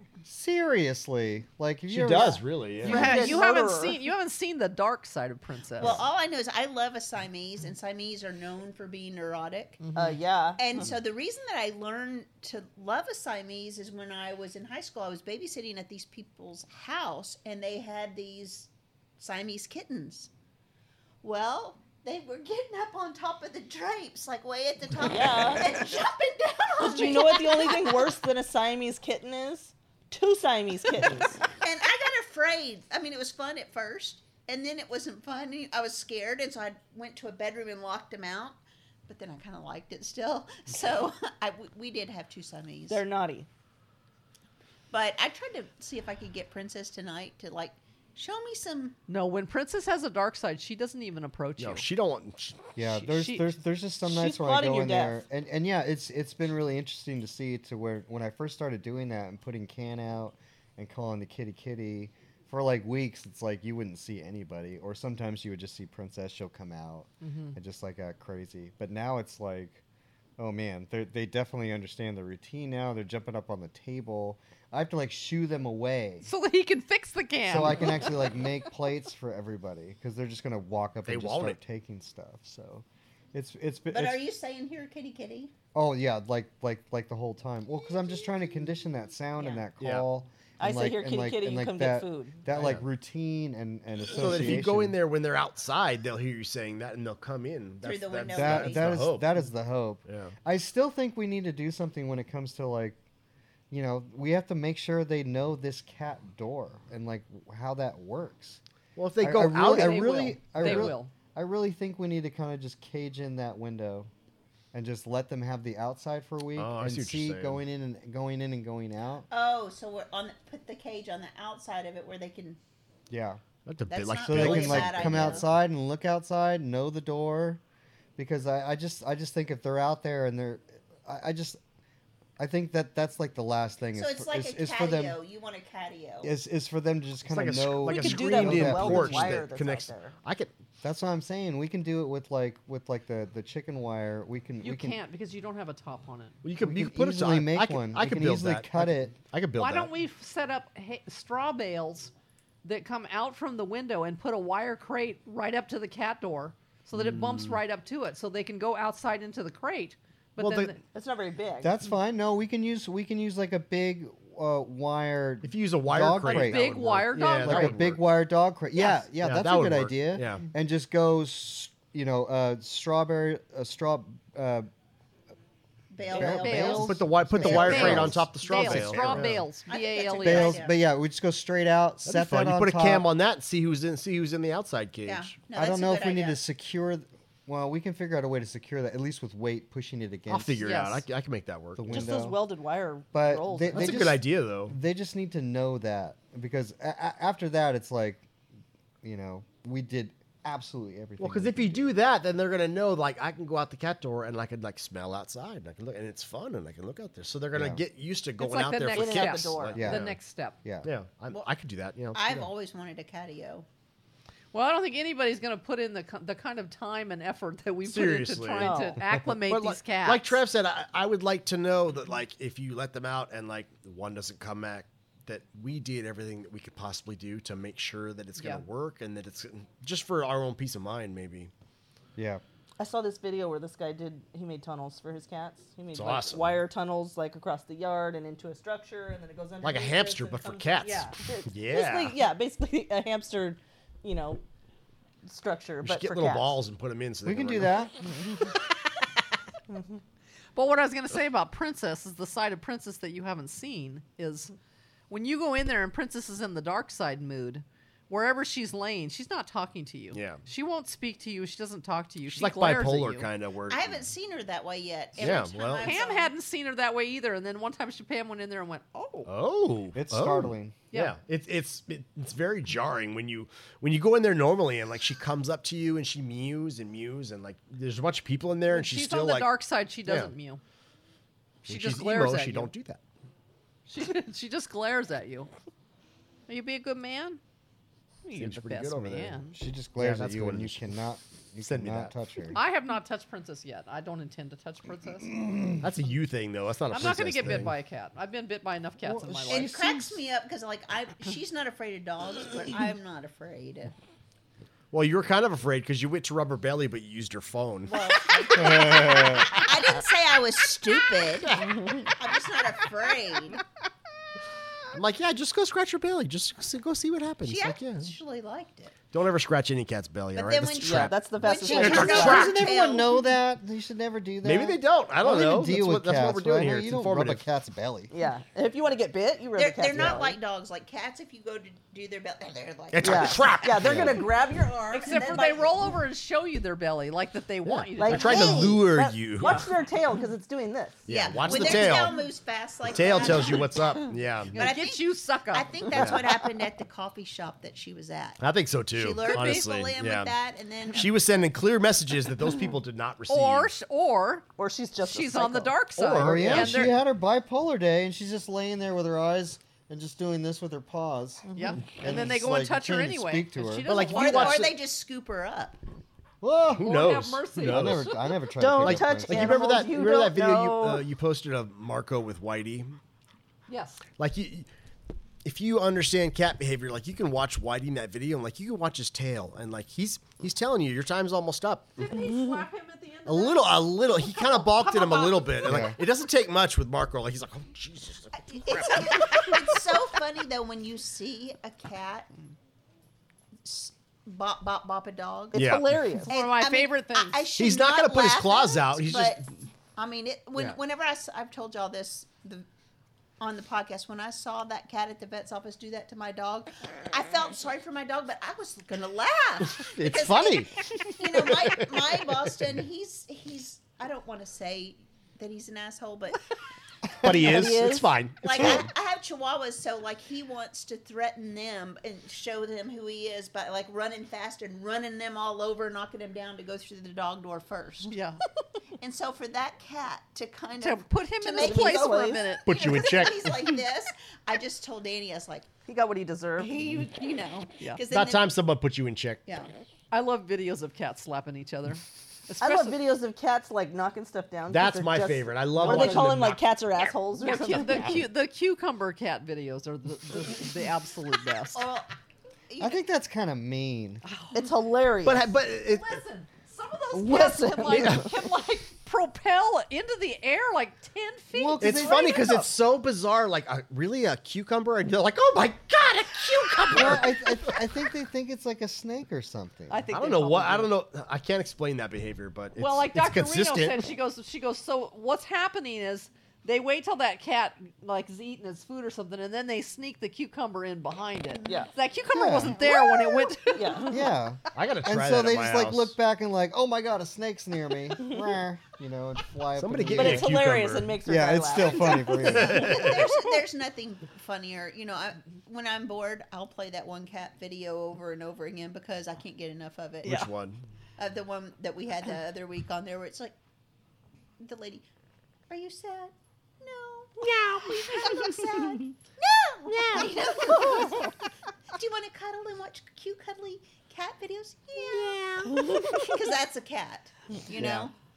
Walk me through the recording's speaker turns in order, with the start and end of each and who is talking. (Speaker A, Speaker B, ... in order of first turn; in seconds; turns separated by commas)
Speaker A: 0.2-2.4, Speaker B: 1.9-3.4, Speaker C: 2.8-4.0, Speaker D: 2.8-6.0, Speaker E: 5.8-9.8, Speaker D: 9.8-10.1, Speaker C: 9.9-10.6, Speaker E: 10.6-20.3, Speaker E: 21.2-28.1, Speaker C: 25.0-25.8, Speaker C: 26.8-31.4, Speaker E: 31.6-43.0, Speaker C: 42.9-43.5, Speaker E: 44.9-49.0, Speaker D: 49.1-51.9, Speaker B: 51.6-52.6, Speaker A: 52.8-69.8, Speaker D: 52.9-53.5, Speaker C: 54.0-55.2, Speaker D: 67.2-67.6, Speaker A: 70.4-76.3, Speaker D: 76.2-78.3, Speaker A: 77.5-84.2, Speaker B: 81.0-81.6, Speaker E: 83.9-85.5, Speaker A: 85.7-95.0, Speaker E: 89.4-89.7, Speaker B: 89.8-90.0, Speaker C: 90.6-92.4, Speaker B: 92.5-92.8, Speaker B: 94.1-99.3, Speaker E: 97.8-99.0, Speaker A: 98.3-103.0, Speaker B: 100.0-100.3, Speaker A: 103.7-108.6, Speaker B: 109.0-111.0, Speaker A: 109.2-114.1, Speaker D: 109.6-111.1, Speaker A: 114.7-119.3, Speaker B: 116.5-117.6, Speaker E: 119.3-122.6, Speaker A: 123.1-123.4, Speaker B: 123.7-125.5, Speaker E: 123.9-125.5, Speaker A: 124.2-127.6, Speaker A: 128.2-131.6, Speaker A: 132.4-135.2, Speaker E: 133.9-136.3, Speaker A: 136.2-139.4, Speaker B: 137.2-140.5, Speaker C: 137.8-140.1, Speaker A: 140.8-145.0, Speaker D: 144.6-146.4, Speaker B: 146.4-149.9, Speaker A: 146.6-149.2, Speaker D: 149.6-152.1, Speaker D: 152.6-160.8, Speaker B: 156.9-157.6, Speaker B: 160.4-160.8, Speaker C: 160.9-161.7, Speaker A: 161.6-174.7, Speaker B: 165.4-168.0, Speaker D: 166.2-167.8, Speaker B: 169.2-170.4, Speaker E: 175.9-177.9, Speaker A: 176.1-179.4, Speaker D: 176.2-176.9, Speaker B: 176.7-179.4, Speaker D: 177.4-180.6, Speaker E: 179.7-180.8, Speaker A: 180.2-183.1, Speaker B: 182.0-185.4, Speaker E: 185.0-186.4, Speaker A: 185.5-190.7, Speaker B: 190.3-192.0, Speaker D: 190.6-191.0, Speaker A: 191.8-192.4, Speaker C: 191.9-193.9, Speaker D: 191.9-193.9, Speaker A: 193.1-198.3, Speaker B: 193.7-194.8, Speaker A: 199.0-201.9, Speaker B: 201.2-210.2, Speaker A: 207.5-207.8, Speaker D: 208.4-210.6, Speaker C: 208.9-209.8, Speaker A: 209.7-210.9, Speaker B: 210.8-212.5, Speaker E: 212.1-213.7, Speaker D: 214.5-220.4, Speaker B: 217.8-231.5, Speaker C: 218.6-219.0, Speaker D: 228.4-228.6, Speaker A: 232.2-232.4, Speaker C: 232.8-244.4, Speaker B: 235.9-236.6, Speaker B: 239.6-242.2, Speaker C: 245.2-246.6, Speaker B: 245.8-247.8, Speaker A: 247.2-247.9, Speaker D: 250.5-254.5, Speaker D: 255.1-263.3, Speaker B: 260.1-260.4, Speaker B: 262.3-264.0, Speaker E: 263.7-266.3, Speaker B: 265.2-266.0, Speaker D: 265.2-269.3, Speaker B: 269.2-279.5, Speaker A: 269.9-270.8, Speaker D: 278.7-280.6, Speaker B: 280.1-280.3, Speaker D: 281.6-282.7, Speaker B: 281.6-283.0, Speaker D: 283.9-285.5, Speaker D: 286.5-287.4, Speaker D: 288.2-289.6, Speaker B: 288.3-289.4, Speaker A: 289.5-292.6, Speaker B: 290.0-290.8, Speaker B: 291.6-292.1, Speaker D: 292.5-295.3, Speaker A: 295.4-295.8, Speaker B: 295.8-297.7, Speaker D: 296.9-299.7, Speaker A: 299.0-300.0, Speaker E: 299.5-303.9, Speaker B: 304.9-308.1, Speaker E: 307.9-313.6, Speaker A: 308.6-309.5, Speaker C: 311.6-312.1, Speaker B: 314.9-318.1, Speaker E: 317.4-319.0, Speaker B: 319.1-322.6, Speaker E: 320.3-323.2, Speaker C: 320.8-322.5, Speaker A: 322.0-328.1, Speaker B: 324.4-327.4, Speaker C: 328.1-330.4, Speaker E: 329.5-333.9, Speaker B: 332.9-334.3, Speaker C: 333.0-335.4, Speaker E: 334.9-335.9, Speaker D: 334.9-338.6, Speaker B: 337.6-339.7, Speaker C: 338.0-341.0, Speaker E: 338.3-338.7, Speaker B: 341.1-342.2, Speaker E: 341.1-348.4, Speaker B: 342.9-344.6, Speaker D: 344.5-345.8, Speaker B: 345.9-346.3, Speaker B: 348.4-350.3, Speaker E: 348.9-351.1, Speaker D: 349.2-349.7, Speaker B: 350.9-353.7, Speaker D: 353.3-354.4, Speaker C: 354.6-356.7, Speaker D: 355.0-356.9, Speaker A: 356.2-363.9, Speaker B: 356.2-356.8, Speaker D: 361.5-364.6, Speaker B: 363.8-364.8, Speaker E: 364.1-365.8, Speaker B: 366.4-368.1, Speaker D: 366.8-368.4, Speaker A: 367.6-369.7, Speaker C: 368.6-371.0, Speaker B: 368.8-373.0, Speaker D: 373.7-374.0, Speaker B: 374.2-374.7, Speaker B: 375.4-382.1, Speaker D: 382.0-385.9, Speaker B: 383.2-389.8, Speaker A: 385.6-385.9, Speaker E: 388.4-392.3, Speaker E: 393.6-395.6, Speaker C: 395.5-396.3, Speaker B: 395.5-395.9, Speaker D: 396.3-397.5, Speaker E: 396.3-402.6, Speaker B: 397.6-399.4, Speaker E: 403.4-416.4, Speaker B: 409.6-412.5, Speaker B: 417.2-418.9, Speaker C: 417.3-418.1, Speaker E: 418.4-428.1, Speaker D: 428.1-428.4, Speaker E: 429.0-435.7, Speaker D: 430.8-432.7, Speaker C: 431.6-432.5, Speaker B: 432.6-433.6, Speaker C: 435.9-436.7, Speaker E: 436.6-438.6, Speaker B: 438.1-439.4, Speaker D: 440.1-443.0, Speaker C: 442.6-448.2, Speaker B: 444.7-446.6, Speaker D: 445.8-446.2, Speaker D: 447.4-451.8, Speaker B: 447.8-448.2, Speaker E: 451.7-452.1, Speaker E: 452.7-453.0, Speaker A: 452.8-454.2, Speaker D: 454.2-454.6, Speaker C: 454.5-455.5, Speaker B: 455.2-456.2, Speaker D: 455.7-462.5, Speaker C: 457.1-458.3, Speaker B: 457.9-458.3, Speaker A: 461.5-462.7, Speaker B: 461.8-467.8, Speaker A: 466.9-470.0, Speaker D: 469.9-470.9, Speaker B: 470.1-474.1, Speaker D: 472.8-484.3, Speaker C: 481.6-481.9, Speaker A: 482.3-482.8, Speaker E: 482.8-483.4, Speaker C: 483.7-484.3, Speaker A: 484.1-490.5, Speaker B: 484.7-486.1, Speaker C: 488.2-488.5, Speaker B: 489.8-491.2, Speaker C: 490.1-492.9, Speaker A: 491.2-493.1, Speaker E: 492.1-500.4, Speaker B: 492.4-493.3, Speaker B: 500.2-500.8, Speaker C: 500.2-500.5, Speaker E: 501.2-503.5, Speaker E: 504.6-505.0, Speaker E: 505.7-511.4, Speaker B: 507.4-508.0, Speaker B: 509.9-510.3, Speaker E: 511.9-518.1, Speaker B: 515.2-515.8, Speaker C: 515.7-516.2, Speaker D: 515.7-516.3, Speaker A: 517.8-518.1